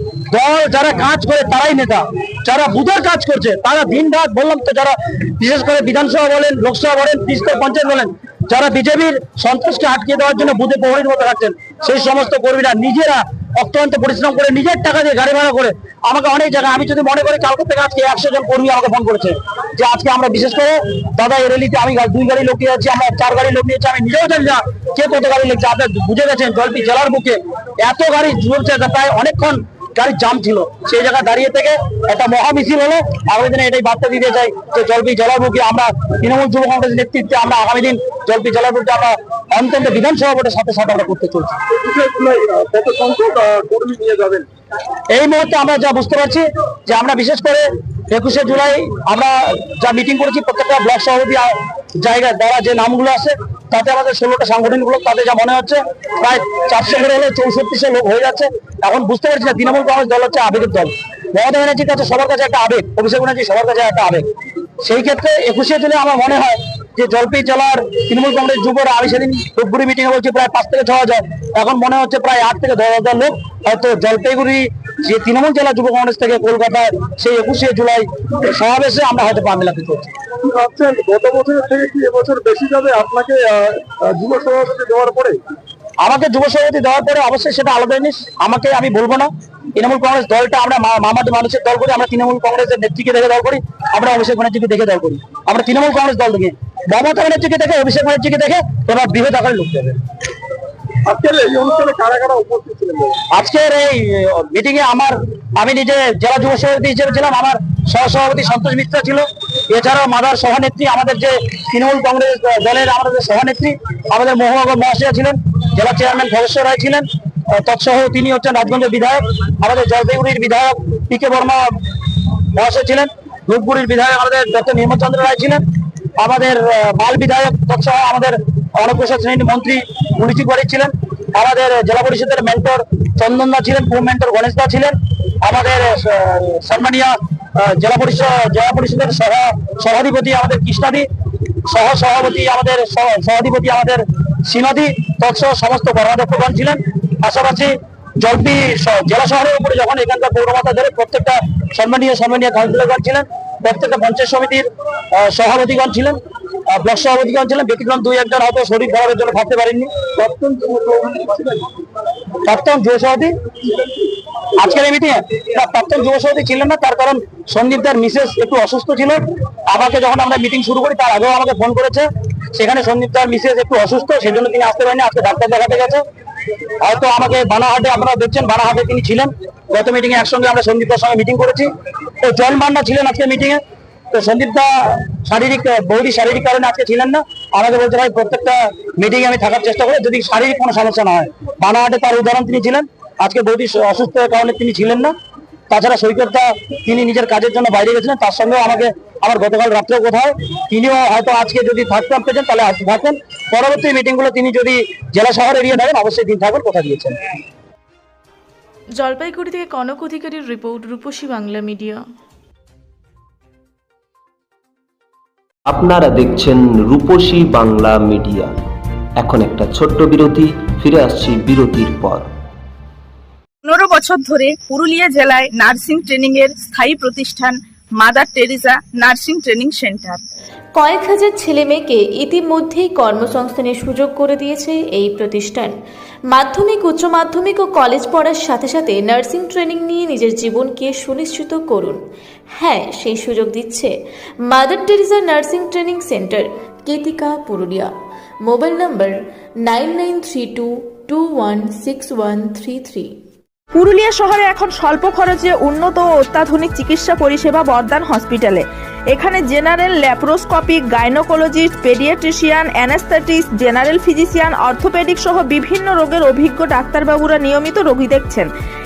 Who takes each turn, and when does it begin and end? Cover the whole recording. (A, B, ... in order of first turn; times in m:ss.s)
0:00.3-0:41.6 A
0:41.8-0:44.5 B
0:45.1-1:04.3 A
1:04.8-1:20.1 A
1:20.4-1:25.4 B
1:26.0-1:40.0 A
1:41.0-1:43.2 B
1:43.3-2:01.8 A
2:02.5-2:05.6 A
2:06.2-2:21.1 A
2:21.6-2:36.2 A
2:36.7-2:40.0 A
2:40.1-2:41.6 B
2:42.4-2:43.3 A
2:44.6-2:56.0 A
2:56.8-3:01.7 A
3:02.2-3:15.1 A
3:15.7-3:27.2 A
3:29.0-3:32.0 C
3:35.7-3:38.5 D
3:39.2-3:42.2 D
3:43.6-3:50.2 E
3:50.7-3:55.7 C
3:56.3-4:02.0 C
4:02.6-4:03.9 C
4:04.5-4:07.9 C
4:08.4-4:13.1 C
4:13.7-4:28.5 E